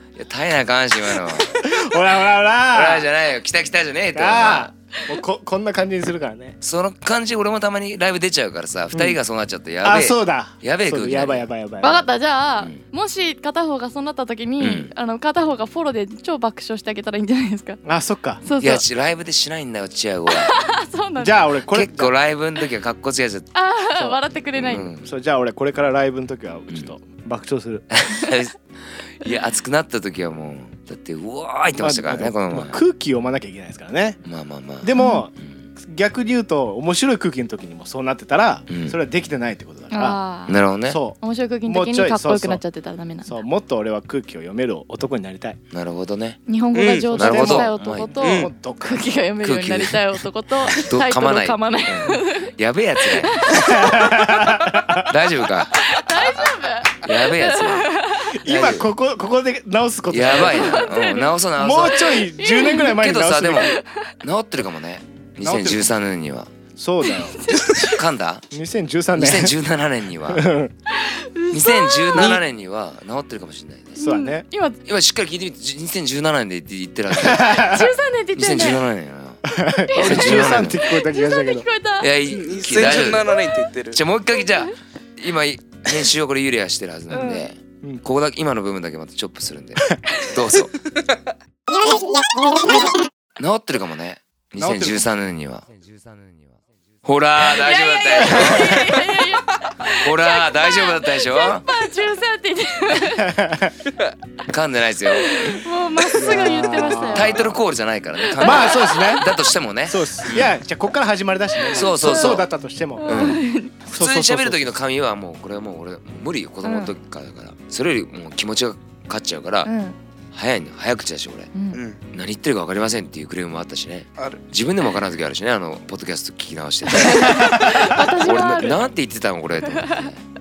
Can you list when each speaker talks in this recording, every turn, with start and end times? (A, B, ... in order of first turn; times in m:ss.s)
0:00.1-0:01.7 A
0:01.3-0:03.0 B
0:02.7-0:04.7 A
0:04.1-0:06.6 B
0:06.6-0:11.5 A
0:08.9-0:09.2 B
0:09.8-0:12.1 B
0:11.8-0:17.8 C
0:14.6-0:14.9 A
0:17.8-0:18.4 B
0:18.4-0:18.8 C
0:18.6-0:20.6 A
0:20.3-0:21.4 C
0:21.2-0:22.1 B
0:21.7-0:23.5 A
0:23.5-0:24.9 C
0:24.5-0:25.1 A
0:25.0-0:27.9 B
0:27.9-0:32.8 A
0:31.8-0:34.2 B
0:34.2-0:35.5 A
0:34.8-0:40.2 B
0:34.9-0:35.3 C
0:38.7-0:39.0 A
0:39.9-0:40.6 C
0:40.5-0:41.0 A
0:40.8-0:42.6 B
0:41.2-0:43.3 C
0:43.2-0:45.6 B
0:45.7-0:46.4 A
0:46.5-0:52.5 C
0:46.7-0:47.3 D
0:47.1-0:49.2 B
0:47.2-0:48.2 A
0:48.2-0:48.5 D
0:49.4-0:53.8 A
0:53.0-0:54.3 C
0:53.5-0:55.1 B
0:54.9-0:56.0 A
0:55.7-0:58.3 C
0:57.0-0:57.9 A
0:58.3-1:00.8 B
0:58.4-0:58.9 A
1:00.1-1:02.2 A
1:00.4-1:01.3 C
1:01.6-1:03.8 B
1:02.3-1:03.0 C
1:02.8-1:06.5 A
1:03.6-1:04.1 C
1:05.4-1:05.8 B
1:06.8-1:07.6 B
1:07.0-1:08.0 C
1:07.8-1:08.4 A
1:08.5-1:09.6 B
1:09.1-1:10.5 A
1:10.3-1:10.7 B
1:10.9-1:12.4 C
1:11.5-1:14.0 A
1:14.0-1:14.8 C
1:14.0-1:14.4 B
1:14.8-1:17.7 A
1:17.1-1:17.9 B
1:17.5-1:18.8 C
1:18.4-1:20.9 A
1:19.5-1:21.7 B
1:19.9-1:22.1 C
1:22.0-1:23.4 A
1:22.2-1:24.0 D
1:22.8-1:23.1 C
1:23.9-1:30.8 A
1:27.1-1:27.4 C
1:33.4-1:39.1 A
1:34.6-1:35.0 B
1:37.4-1:43.4 C
1:38.4-1:38.8 B
1:39.9-1:41.7 A
1:43.0-1:43.9 B
1:44.5-1:45.6 A
1:45.1-1:47.5 C
1:46.1-1:47.6 B
1:46.6-1:50.6 A
1:48.2-1:49.2 C
1:48.4-1:49.3 B
1:49.9-1:53.4 B
1:51.7-1:52.4 C
1:51.7-1:52.5 A
1:53.0-1:53.7 C
1:53.0-1:59.7 A
1:53.9-1:54.6 B
1:56.6-1:56.9 C
1:59.6-2:00.0 C
2:00.3-2:01.5 A
2:01.5-2:01.8 C
2:01.7-2:02.0 D
2:02.1-2:10.2 A
2:04.2-2:04.4 D
2:06.9-2:08.8 C